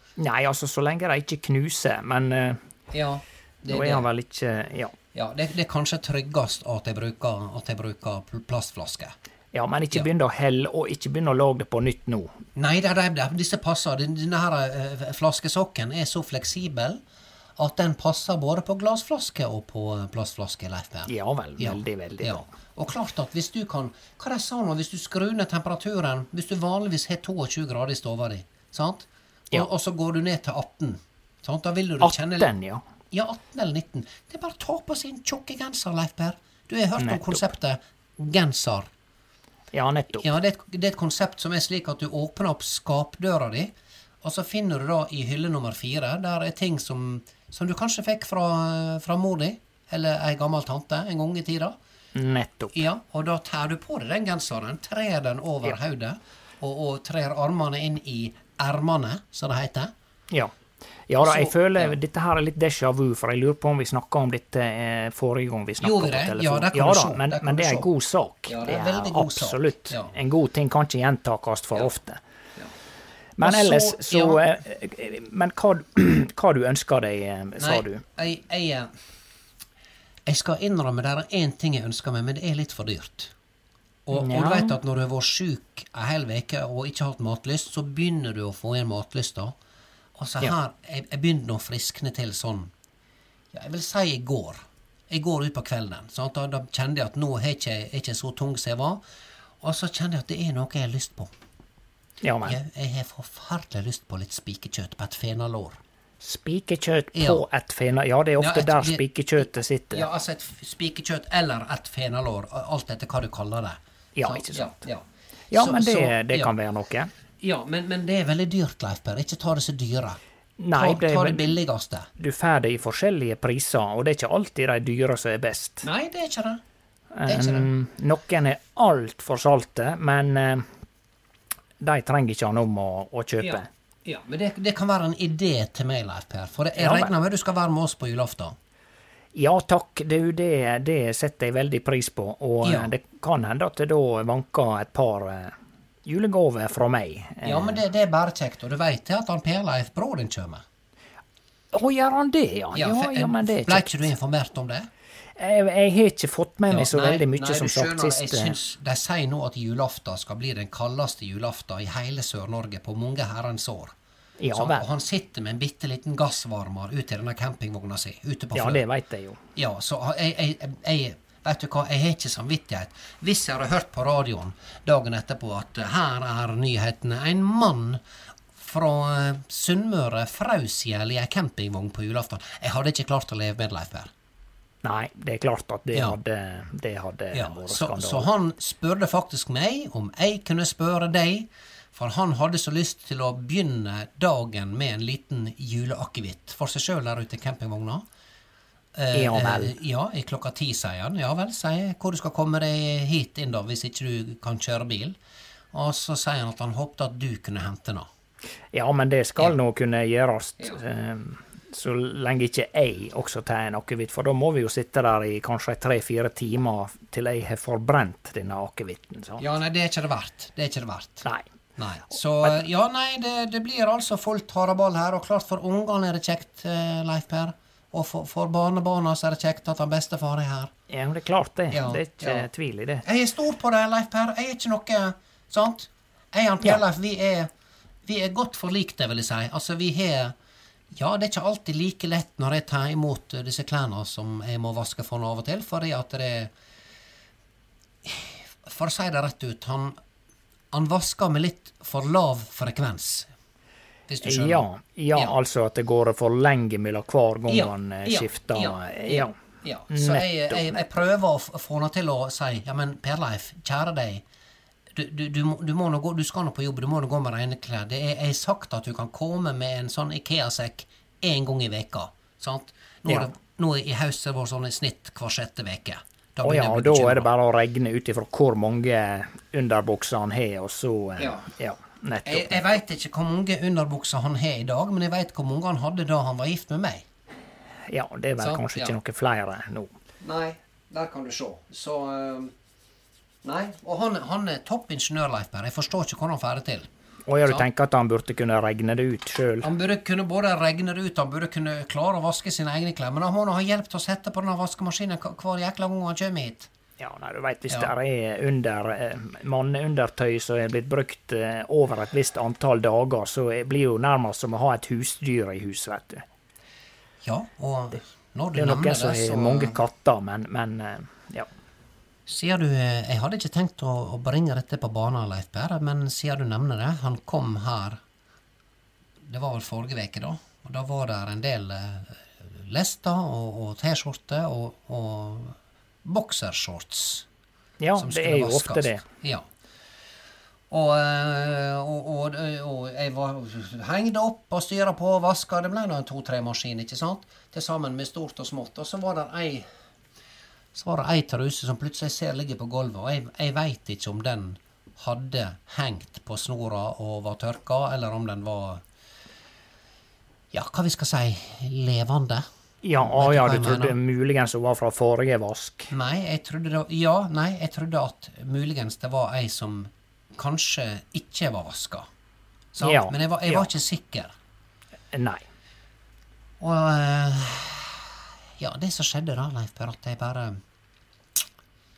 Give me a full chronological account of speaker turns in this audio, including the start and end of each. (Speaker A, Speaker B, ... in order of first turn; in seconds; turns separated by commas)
Speaker A: 0.2-2.6, Speaker B: 2.9-4.1, Speaker A: 3.7-4.9, Speaker B: 5.1-9.1, Speaker A: 9.5-12.3, Speaker B: 12.6-17.0, Speaker B: 17.6-32.5, Speaker A: 21.1-22.5, Speaker A: 32.0-32.8, Speaker B: 33.1-38.9, Speaker A: 37.0-37.4, Speaker A: 39.7-40.3, Speaker B: 40.1-51.8, Speaker A: 52.1-52.8, Speaker B: 52.7-59.9, Speaker A: 61.1-72.2, Speaker B: 61.2-62.0, Speaker B: 65.8-67.9, Speaker B: 68.5-70.1, Speaker A: 73.4-78.0, Speaker B: 73.4-74.4, Speaker B: 77.6-78.9, Speaker B: 80.2-83.3, Speaker B: 84.0-89.5, Speaker A: 84.1-84.8, Speaker B: 90.2-92.7, Speaker B: 93.5-99.0, Speaker B: 99.6-101.3, Speaker A: 102.2-102.6, Speaker B: 102.4-105.8, Speaker A: 106.2-110.0, Speaker B: 107.1-107.4, Speaker B: 108.4-116.5, Speaker A: 114.2-114.7, Speaker A: 115.5-117.1, Speaker B: 117.4-120.2, Speaker A: 120.6-121.6, Speaker B: 120.7-122.1, Speaker A: 122.2-125.9, Speaker B: 125.8-126.6, Speaker A: 127.2-130.7, Speaker B: 127.2-127.7, Speaker A: 131.8-133.7, Speaker B: 133.4-138.6, Speaker A: 136.8-137.1, Speaker A: 139.3-145.5, Speaker B: 142.6-142.9, Speaker A: 146.1-147.8, Speaker B: 147.4-150.6, Speaker A: 151.7-154.1, Speaker B: 152.7-154.9, Speaker A: 155.4-158.6, Speaker B: 156.7-163.9, Speaker A: 164.4-164.8, Speaker B: 164.5-168.8, Speaker A: 168.5-169.4, Speaker B: 169.6-178.0, Speaker B: 178.5-184.1, Speaker A: 184.8-188.3, Speaker B: 185.9-186.2, Speaker B: 187.3-198.0, Speaker B: 198.9-205.2, Speaker A: 199.1-199.7, Speaker B: 205.7-208.1, Speaker A: 208.7-219.4, Speaker B: 219.4-230.7, Speaker A: 230.9-233.0, Speaker B: 231.7-232.5, Speaker B: 233.0-237.5, Speaker B: 238.1-240.3, Speaker B: 240.9-246.5, Speaker B: 248.0-250.0, Speaker B: 250.7-253.3, Speaker B: 254.1-255.3, Speaker A: 254.2-259.4, Speaker B: 257.5-264.2, Speaker A: 259.9-260.8, Speaker B: 264.9-277.3, Speaker A: 273.1-273.3, Speaker A: 276.4-282.6, Speaker B: 281.2-281.4, Speaker B: 282.2-287.1, Speaker A: 287.9-289.9, Speaker B: 288.4-288.9, Speaker B: 290.2-292.5, Speaker B: 293.4-296.9, Speaker A: 297.3-299.7, Speaker B: 299.6-306.7, Speaker A: 307.0-316.2, Speaker B: 317.2-319.8, Speaker A: 318.5-321.5, Speaker B: 322.3-328.0, Speaker B: 329.2-337.2, Speaker A: 337.8-339.0, Speaker B: 338.0-339.5, Speaker B: 340.7-349.7, Speaker B: 350.7-358.8, Speaker B: 360.5-362.4, Speaker A: 362.8-365.9, Speaker B: 362.9-364.0, Speaker B: 365.9-372.1, Speaker B: 372.7-374.3, Speaker A: 372.8-373.7, Speaker A: 375.1-375.4, Speaker B: 376.6-380.6